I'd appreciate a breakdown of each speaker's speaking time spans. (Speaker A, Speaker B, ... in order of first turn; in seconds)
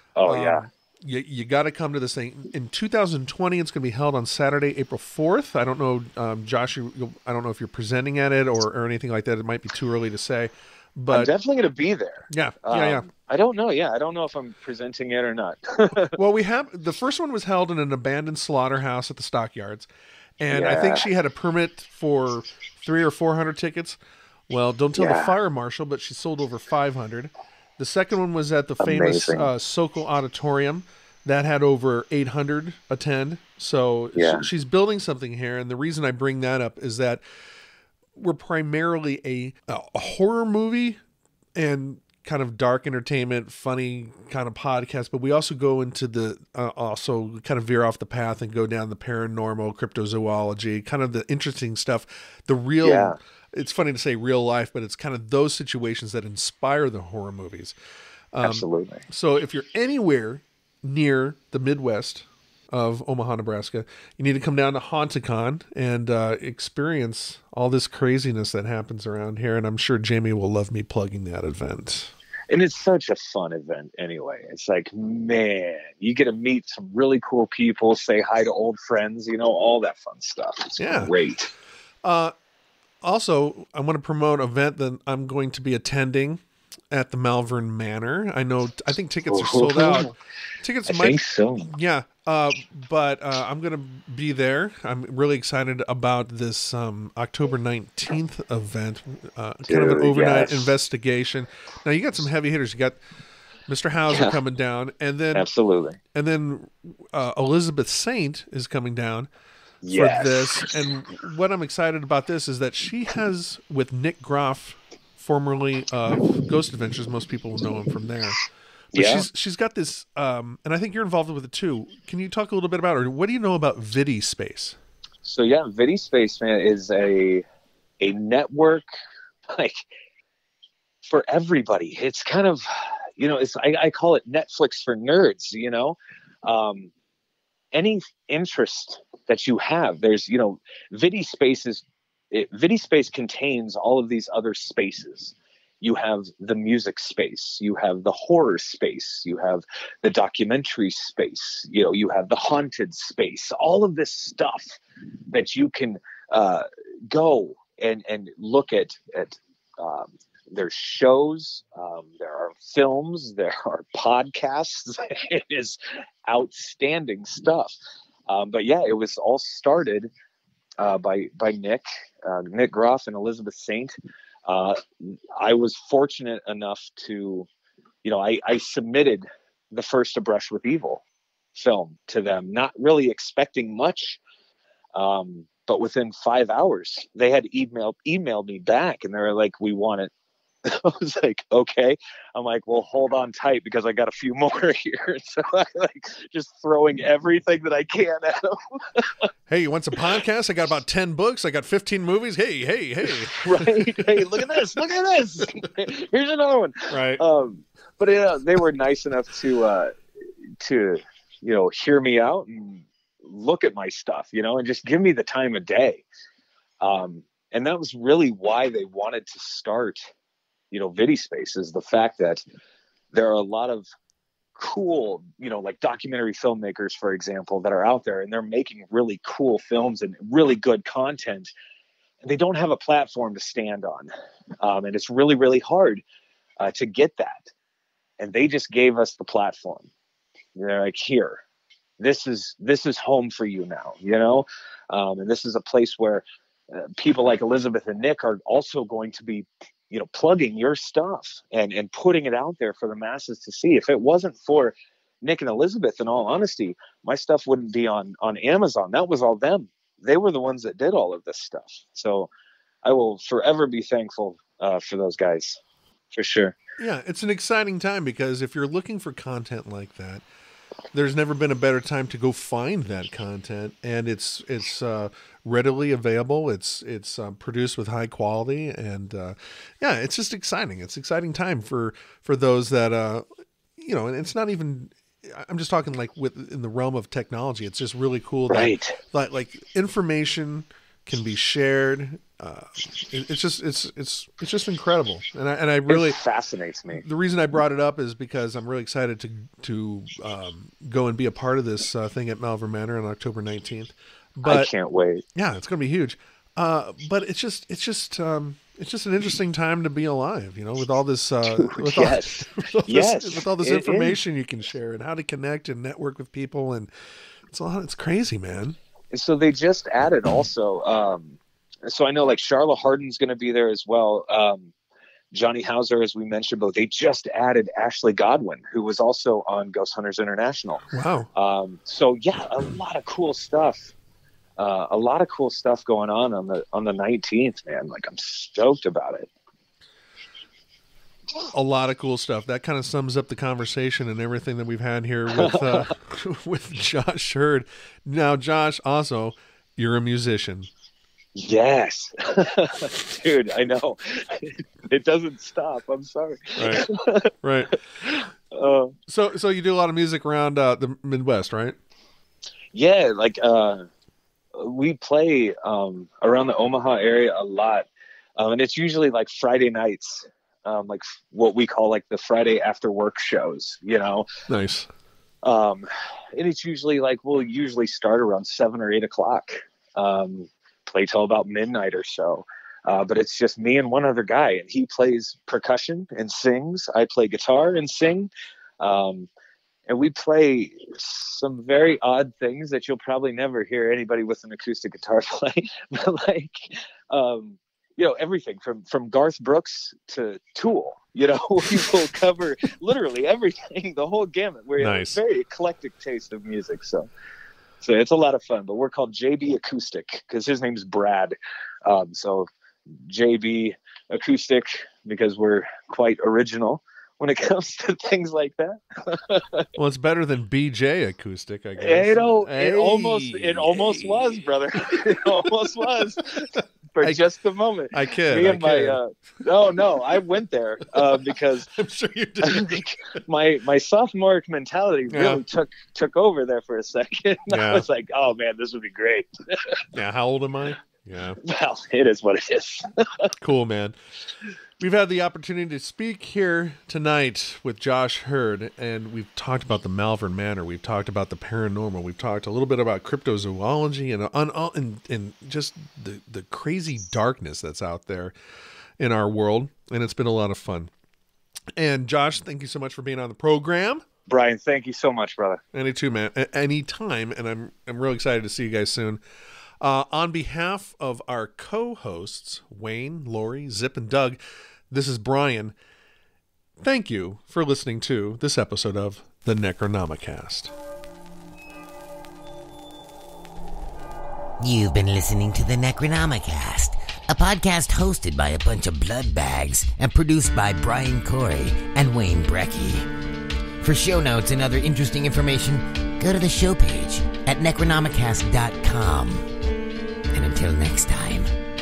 Speaker A: 0.1-0.7, 11.1-16.1, 20.5-21.1, 24.9-25.3, 28.8-29.5, 34.1-34.5, 52.8-53.2, 58.4-59.0, 72.5-81.5, 89.3-90.1, 90.8-91.7, 99.7-100.7, 104.1-104.3, 105.3-106.0, 109.8-110.7, 118.9-119.3, 125.2-127.4, 128.0-128.8, 129.5-129.9, 131.0-132.6, 133.2-136.9, 137.7-154.8, 155.3-167.8, 168.3-170.1, 170.8-173.9, 174.4-177.5, 178.0-181.0, 181.5-184.2, 184.9-190.1, 190.6-199.3, 203.0-210.0, 210.6-216.0, 216.8-220.1, 220.7-222.4, 223.1-223.8, 224.5-231.5, 232.2-234.1, 234.6-236.0, 236.6-237.5, 238.2-239.9, 240.5-241.4, 242.0-262.3, 262.8-265.6, 266.1-266.6, 288.5-289.0, 295.9-297.0, 304.4-305.2, 311.5-314.2, 319.1-324.7, 325.3-333.9, 334.6-339.3, 345.3-345.9, 351.3-357.3, 358.0-358.9, 362.7-363.8, 364.5-374.3, 375.4-389.3, 389.9-407.1, 407.8-419.7, 421.8-431.7, 432.4-439.9, 441.4-443.3, 464.3-465.6
Speaker B: 0.2-11.3, 12.3-13.1, 16.1-19.9, 20.4-24.0, 24.5-37.2, 38.1-41.0, 41.6-57.7, 58.3-72.1, 80.8-81.1, 82.0-82.3, 83.0-103.0, 103.7-105.5, 106.1-109.3, 109.9-118.4, 118.9-124.8, 199.5-204.6, 206.9-207.2, 266.8-270.2, 270.9-283.2, 283.8-296.2, 296.9-304.7, 305.4-316.9, 317.5-318.8, 330.9-331.3, 341.5-350.7, 356.6-356.8, 357.4-357.8, 359.1-361.8, 374.5-374.9, 404.8-405.2, 419.7-424.4, 425.2-425.5, 426.5-427.2, 427.9-429.0, 430.9-432.9, 435.1-435.4, 437.5-437.9, 439.9-441.4, 443.4-443.9, 444.8-458.3, 459.0-460.9, 461.8-464.0, 465.7-469.2, 469.8-474.4, 474.9-475.7, 476.8-480.7
Speaker C: 484.6-493.1, 493.8-499.4, 500.3-501.5